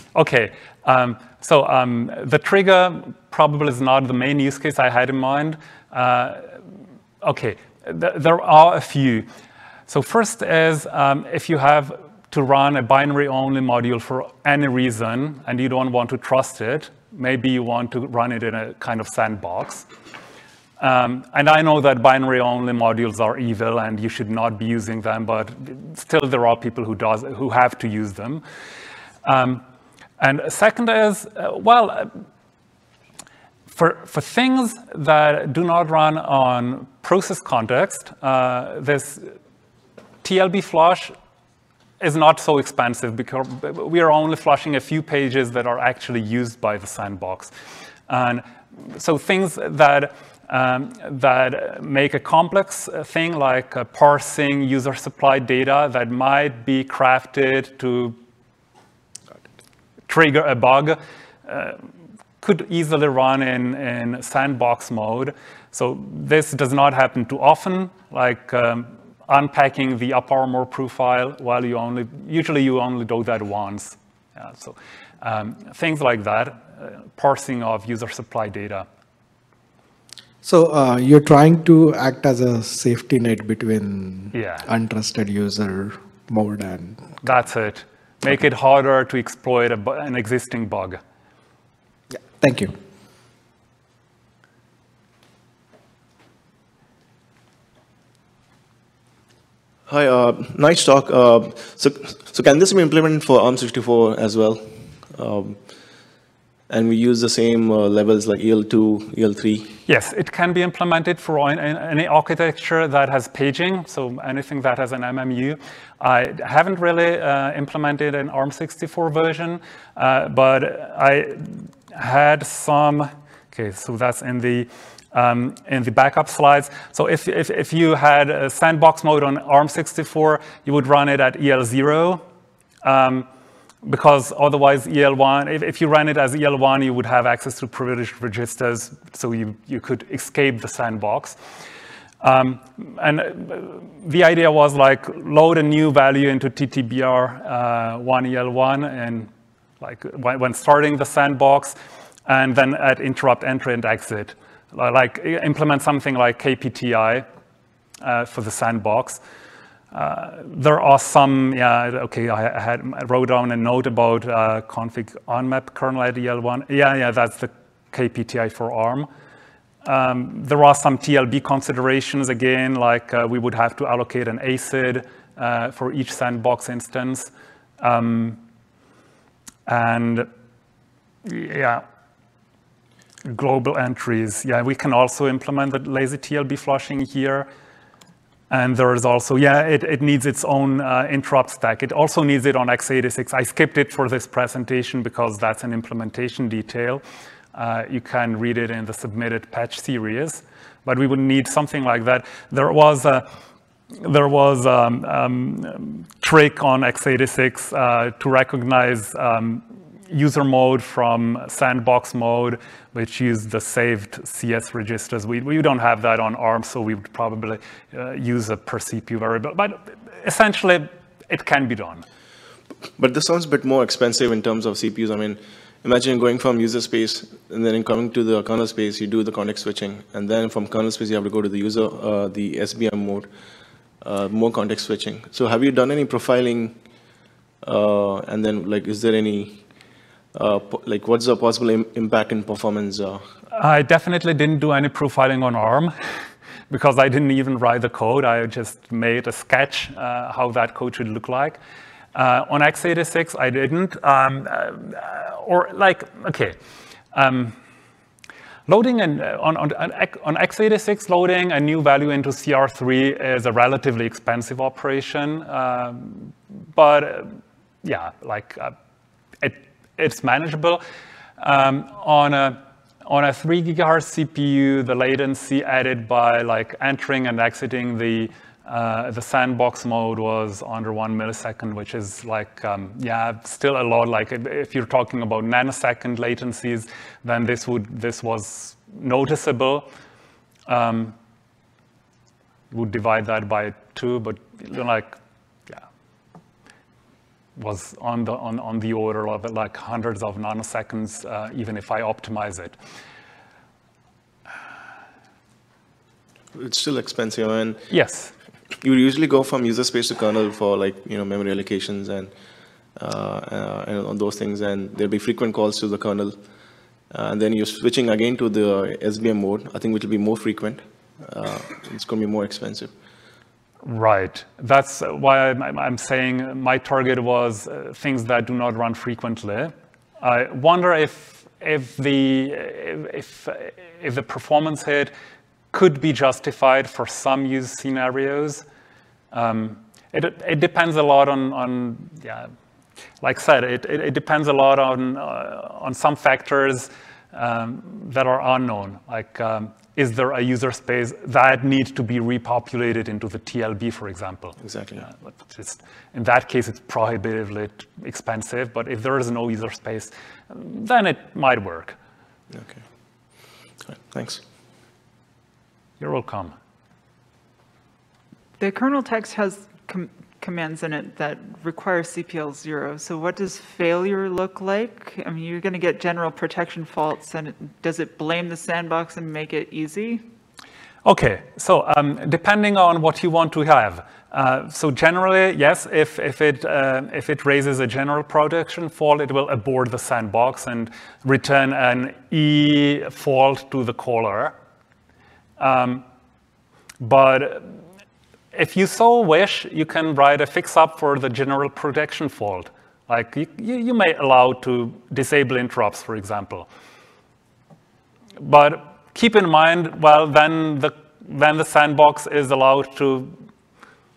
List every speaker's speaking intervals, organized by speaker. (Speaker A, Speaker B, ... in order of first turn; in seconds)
Speaker A: 0.1-6.5, 7.2-9.3, 9.9-19.9, 20.8-28.4, 29.2-29.6, 30.2-32.1, 33.7-39.3, 40.2-41.1, 42.0-47.5, 48.1-58.2, 60.1-61.8, 62.4-78.9, 84.3-84.7, 87.2-91.0, 109.9-132.2, 132.8-133.3, 133.8-141.4, 142.2-149.3, 149.8-151.8, 152.3-157.2, 158.0-159.2, 159.9-169.1, 169.8-177.3, 177.8-178.4, 179.7-180.3, 181.2-181.8, 183.2-187.5, 188.5-197.0, 197.5-203.3, 204.0-222.1, 243.5-245.9, 246.7-251.6, 252.2-256.6, 257.1-257.6, 258.7-268.7, 269.4-270.8, 271.4-289.9, 290.7-291.2, 292.7-295.2, 297.6-302.8, 307.9-308.3, 323.8-335.1, 335.7-338.6, 339.3-342.5, 343.2-362.0, 366.0-366.5, 381.0-394.6, 395.6-396.1, 397.0-397.7, 398.5-406.7, 408.4-413.4
Speaker B: 80.4-87.1, 92.3-92.8
Speaker C: 99.9-105.6, 106.7-109.8, 223.0-233.3, 234.0-236.8, 237.6-239.6, 240.3-243.2, 306.5-307.9, 308.8-312.3, 313.0-316.4, 317.1-322.9, 354.6-355.1, 362.5-362.8, 363.9-364.4
Speaker D: 368.6-380.2